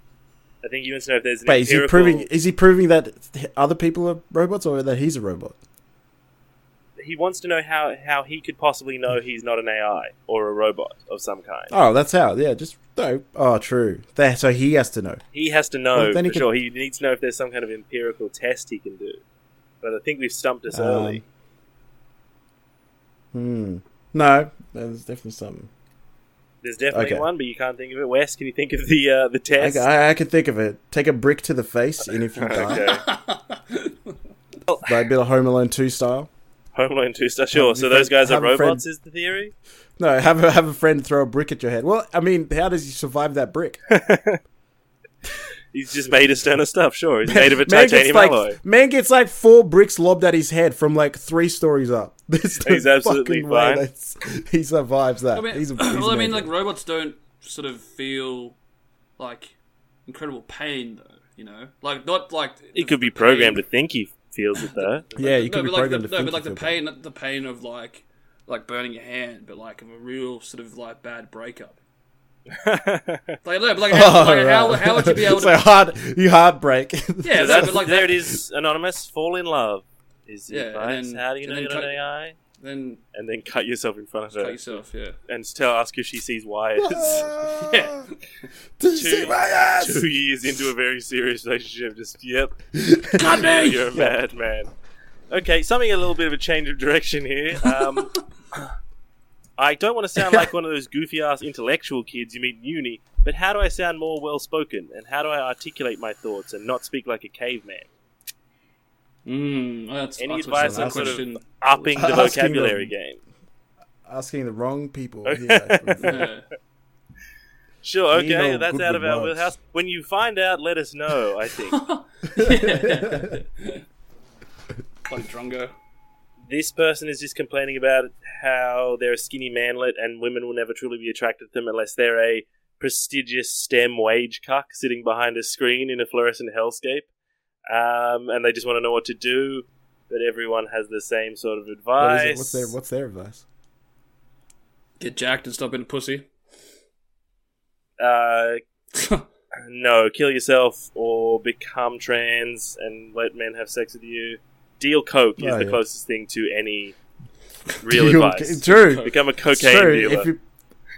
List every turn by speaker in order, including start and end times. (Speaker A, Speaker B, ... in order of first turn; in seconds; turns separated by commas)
Speaker A: 0.6-2.3, Speaker B: 1.4-5.5, Speaker A: 7.0-11.7, Speaker B: 11.7-15.2, Speaker A: 15.3-19.2, Speaker B: 15.9-16.5, Speaker A: 19.8-21.2, Speaker B: 20.7-21.2, Speaker B: 23.3-25.7, Speaker A: 26.6-29.9, Speaker B: 26.9-27.2, Speaker B: 29.6-32.9, Speaker A: 32.3-33.0, Speaker C: 32.7-33.9, Speaker A: 34.7-35.0, Speaker B: 34.9-36.3, Speaker A: 36.7-39.5, Speaker B: 37.5-38.8, Speaker B: 40.0-43.8, Speaker A: 43.9-44.4, Speaker A: 45.7-48.6, Speaker B: 47.3-56.5, Speaker A: 52.6-53.8, Speaker C: 55.3-58.6, Speaker C: 59.2-59.5, Speaker C: 60.1-63.6, Speaker A: 62.7-65.1, Speaker C: 64.6-71.8, Speaker B: 65.2-66.8, Speaker A: 72.5-73.4, Speaker C: 73.4-75.7, Speaker B: 73.9-78.0, Speaker C: 77.2-78.1, Speaker A: 77.3-82.3, Speaker C: 80.5-82.0, Speaker C: 82.6-83.0, Speaker A: 83.1-87.2, Speaker C: 84.3-85.2, Speaker B: 86.8-88.1, Speaker C: 87.0-88.1, Speaker B: 88.8-90.0, Speaker A: 88.9-92.6, Speaker B: 92.7-94.1, Speaker C: 93.2-94.0, Speaker A: 93.2-94.7, Speaker A: 95.3-98.1, Speaker A: 99.6-107.9, Speaker C: 109.2-111.4, Speaker A: 110.2-113.2, Speaker B: 110.6-111.2, Speaker B: 111.9-112.9, Speaker B: 114.0-116.3, Speaker A: 115.2-116.3, Speaker C: 116.0-116.4, Speaker A: 117.8-121.8, Speaker B: 118.1-119.5, Speaker C: 121.7-123.8, Speaker B: 122.4-123.3, Speaker C: 125.1-125.7, Speaker A: 126.4-137.1, Speaker A: 137.7-142.7, Speaker B: 142.0-143.4, Speaker C: 145.0-146.3, Speaker A: 148.0-148.6, Speaker C: 148.9-149.2, Speaker A: 149.6-156.9, Speaker B: 155.4-155.8, Speaker A: 157.8-160.3, Speaker B: 157.9-160.4, Speaker C: 158.7-159.1